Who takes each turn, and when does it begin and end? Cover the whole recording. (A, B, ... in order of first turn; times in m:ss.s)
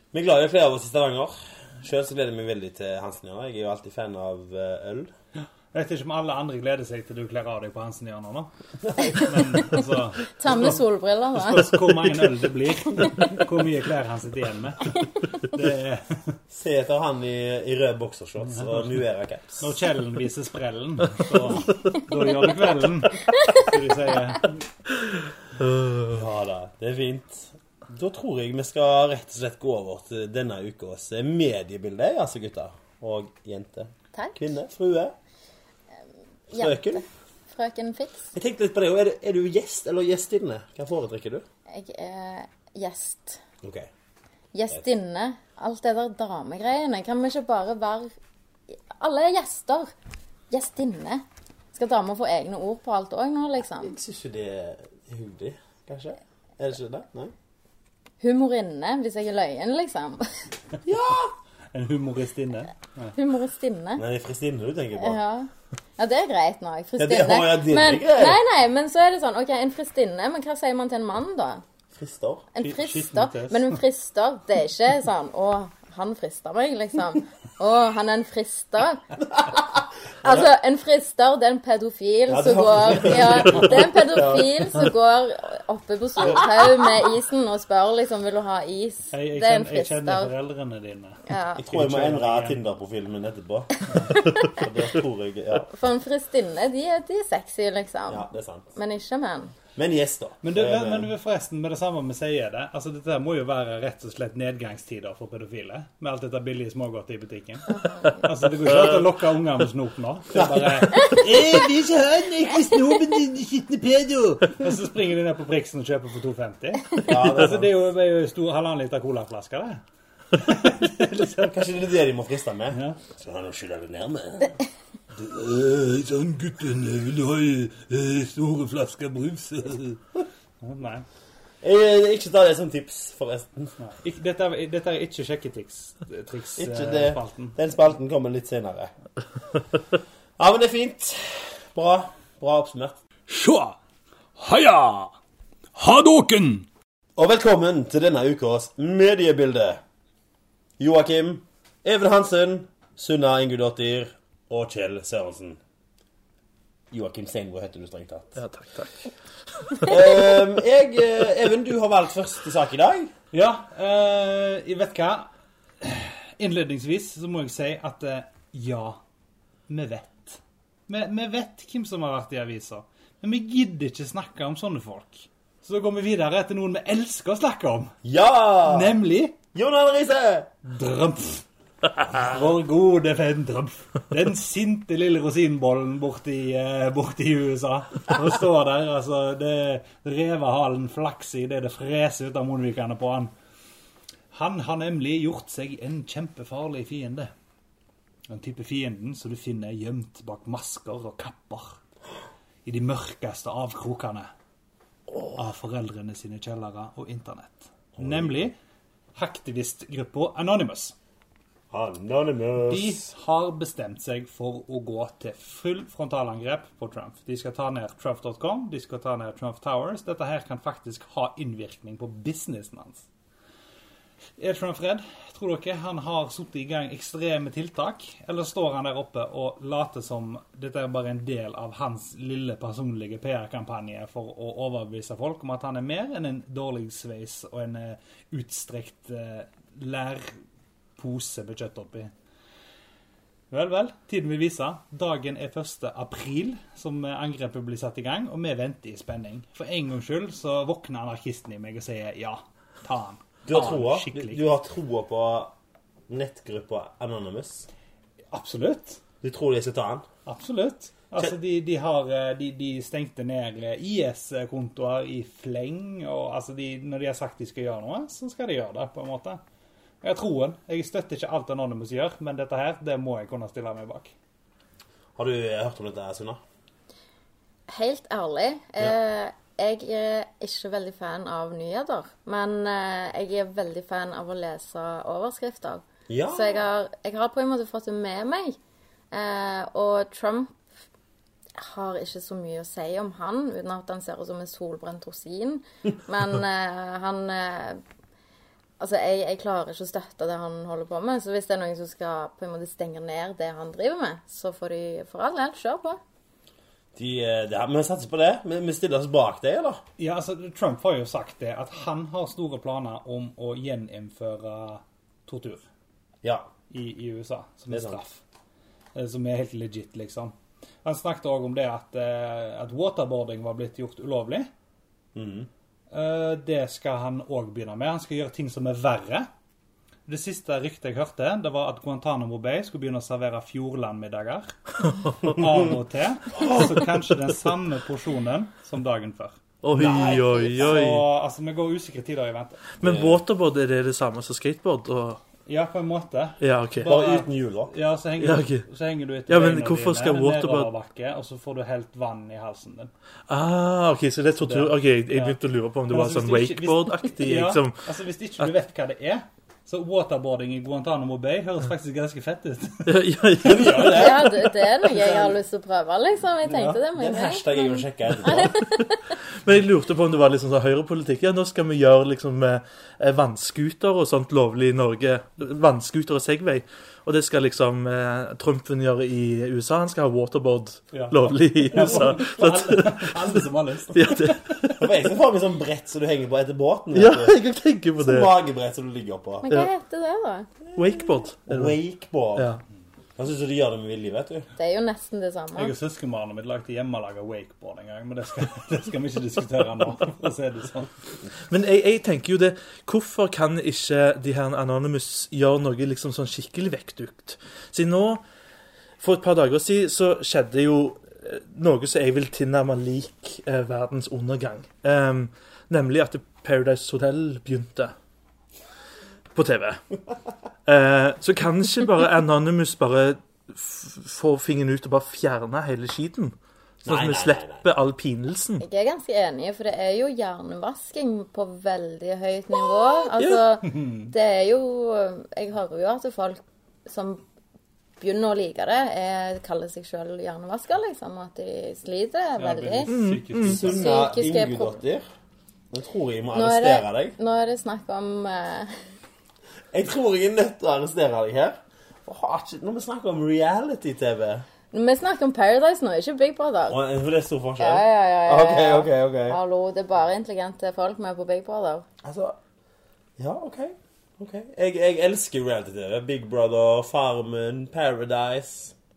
0:00.1-0:05.1 A
0:05.7-0:10.8 B
0:08.9-0:09.2 A
0:09.0-0:12.3 C
0:11.4-0:16.4 B
0:16.5-0:19.7 A
0:18.4-0:19.0 B
0:19.6-0:24.6 B
0:25.6-0:26.2 D
0:26.1-0:35.2 A
0:34.1-0:34.4 C
0:36.5-0:38.3 C
0:36.5-0:37.0 A
0:38.3-0:41.5 A
0:41.7-0:43.4 C
0:43.6-0:43.9 A
0:44.5-0:48.1 C
0:48.9-0:49.9 C
0:50.5-0:53.9 C
0:53.8-0:57.3 A
0:58.2-1:00.5 C
1:00.8-1:01.3 A
1:01.7-1:03.2 B
1:03.2-1:04.0 C
1:04.0-1:05.2 A
1:05.0-1:11.6 C
1:07.0-1:08.4 A
1:11.9-1:12.5 A
1:12.5-1:19.1 C
1:12.6-1:13.8 B
1:19.3-1:20.5 A
1:20.2-1:30.3 C
1:22.3-1:24.9 A
1:23.2-1:23.8 B
1:29.1-1:32.6 B
1:31.3-1:31.6 C
1:31.6-1:35.7 A
1:34.3-1:34.5 C
1:35.7-1:39.6 C
1:38.1-1:38.8 A
1:39.8-1:41.1 A
1:40.4-1:59.8 B
1:47.7-1:48.3 C
1:50.3-1:51.2 A
1:57.0-1:57.7 A
2:00.3-2:01.7 B
2:01.5-2:04.6 A
2:02.7-2:03.0 B
2:05.2-2:10.0 B
2:10.6-2:11.0 B
2:11.6-2:13.8 A
2:13.8-2:17.6 B
2:16.6-2:18.9 A
2:20.4-2:23.0 A
2:23.3-2:23.8 E
2:24.4-2:25.1 E
2:25.7-2:26.7 E
2:27.2-2:29.8 A
2:30.8-2:35.6 A
2:36.9-2:38.4 A
2:38.4-2:38.9 D
2:39.8-2:43.1 A
2:43.3-2:45.3 B
2:45.8-2:49.0 B
2:49.7-2:58.0 B
2:58.0-2:59.0 A
2:58.7-2:59.4 B
2:59.5-3:00.5 A
3:00.6-3:01.4 B
3:02.0-3:13.3 B
3:14.3-3:17.3 B
3:18.3-3:21.8 B
3:22.6-3:24.3 B
3:25.4-3:28.6 B
3:28.0-3:28.5 A
3:29.2-3:31.0 B
3:31.7-3:33.1 A
3:32.7-3:43.1 B
3:44.4-4:00.4 B
4:01.0-4:02.1 B
4:03.5-4:14.4 B
4:13.4-4:15.6 A
4:16.1-4:17.7 A
4:18.3-4:19.0 B
4:19.2-4:20.1 A
4:20.3-4:29.4 B
4:30.0-4:34.1 B
4:35.2-4:36.4 A
4:37.7-4:48.6 C
4:46.1-4:46.6 A
4:49.1-4:50.6 C
4:51.6-4:57.8 C
4:58.8-5:06.0 C
5:07.0-5:09.8 A
5:10.0-5:15.7 B
5:16.2-5:16.5 A
5:16.7-5:18.2 B
5:17.7-5:18.0 A
5:19.0-5:24.5 B
5:25.2-5:25.5 A
5:25.9-5:29.3 B
5:30.1-5:34.6 B
5:35.2-5:42.7 B
5:39.6-5:41.0 D
5:39.8-5:40.4 A
5:42.8-5:45.2 D
5:42.8-5:43.2 A
5:45.5-5:52.9 B
5:46.4-5:47.0 D
5:46.8-5:47.7 A
5:48.2-5:48.7 D
5:49.3-5:50.7 D
5:53.3-5:57.8 D
5:54.4-6:04.0 B
6:02.9-6:04.5 D
6:03.4-6:05.4 A
6:03.9-6:09.1 C
6:06.5-6:06.8 B
6:06.6-6:08.7 A
6:09.4-6:23.2 D
6:20.9-6:24.4 B
6:23.9-6:24.8 D
6:24.8-6:27.4 A
6:26.9-6:28.3 D
6:28.0-6:29.5 A
6:29.4-6:30.5 C
6:30.7-6:32.5 A
6:30.8-6:31.8 D
6:32.4-6:32.6 D
6:33.2-6:34.5 A
6:34.6-6:35.7 C
6:35.6-6:41.0 B
6:41.5-6:48.2 D
6:49.0-6:57.9 D
6:59.4-6:59.8 D
7:00.7-7:08.6 D
7:06.8-7:07.7 A
7:08.6-7:17.2 C
7:13.6-7:14.1 B
7:18.0-7:22.9 C
7:22.4-7:23.9 B
7:22.9-7:23.6 D
7:23.4-7:25.0 A
7:23.6-7:24.8 C
7:25.7-7:27.2 A
7:26.3-7:28.8 C
7:29.7-7:34.5 A
7:34.7-7:36.8 C
7:36.7-7:39.4 A
7:37.6-7:41.9 C
7:42.0-7:42.4 A
7:43.2-7:48.8 A